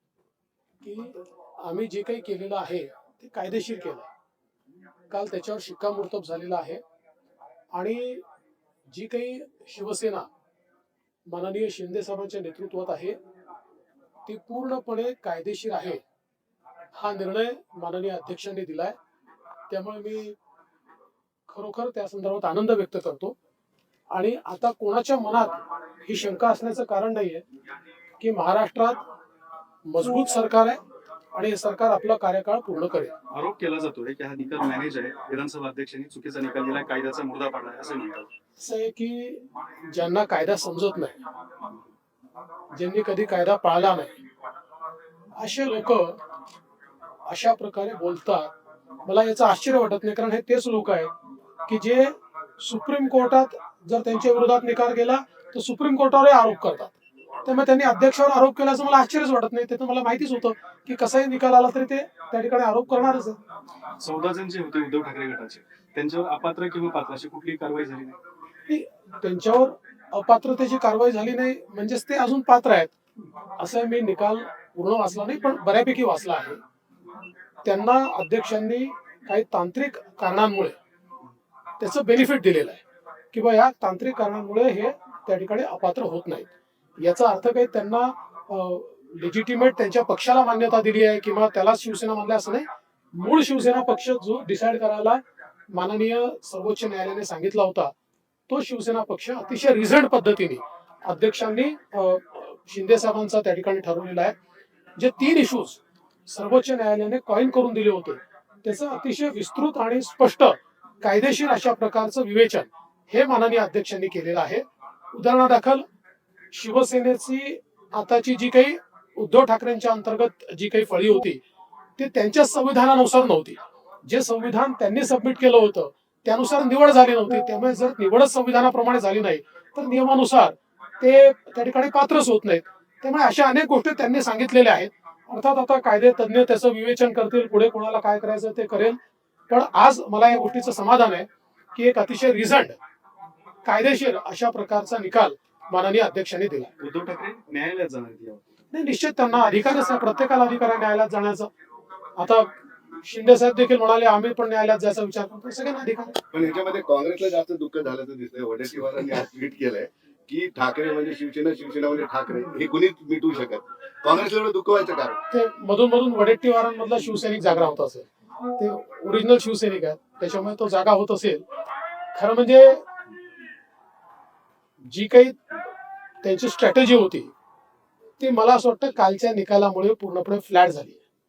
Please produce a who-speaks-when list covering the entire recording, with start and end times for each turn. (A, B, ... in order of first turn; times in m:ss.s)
0:00.8-0:04.1 A
0:05.1-0:06.8 A
0:07.7-0:08.2 A
0:08.9-0:10.3 A
0:11.3-0:13.2 A
0:14.3-0:16.0 A
0:16.9-0:19.0 A
0:19.7-0:20.4 A
0:21.5-0:23.4 A
0:24.1-0:27.4 A
0:28.2-0:29.0 A
0:29.9-0:30.8 A
0:31.3-0:33.1 A
0:33.3-0:38.3 B
0:38.6-0:41.2 A
0:42.7-0:44.1 A
0:45.4-0:46.2 A
0:47.3-0:48.5 A
0:49.0-0:51.1 A
0:51.7-1:03.4 A
1:04.0-1:08.2 B
1:08.7-1:13.0 A
1:13.6-1:16.6 A
1:17.6-1:20.8 A
1:21.8-1:26.5 A
1:27.0-1:37.9 A
1:38.5-1:44.3 A
1:45.0-1:55.8 A
1:56.5-2:01.4 A
2:02.0-2:19.0 A
2:19.5-2:22.8 A
2:23.6-2:26.7 A
2:26.8-2:28.4 B
2:28.7-2:31.5 A
2:32.2-2:36.2 A
2:36.3-2:45.2 C
2:45.3-2:51.4 A
2:52.1-2:52.8 A
2:54.8-2:55.4 A
2:56.2-2:57.3 A
2:58.2-3:01.0 A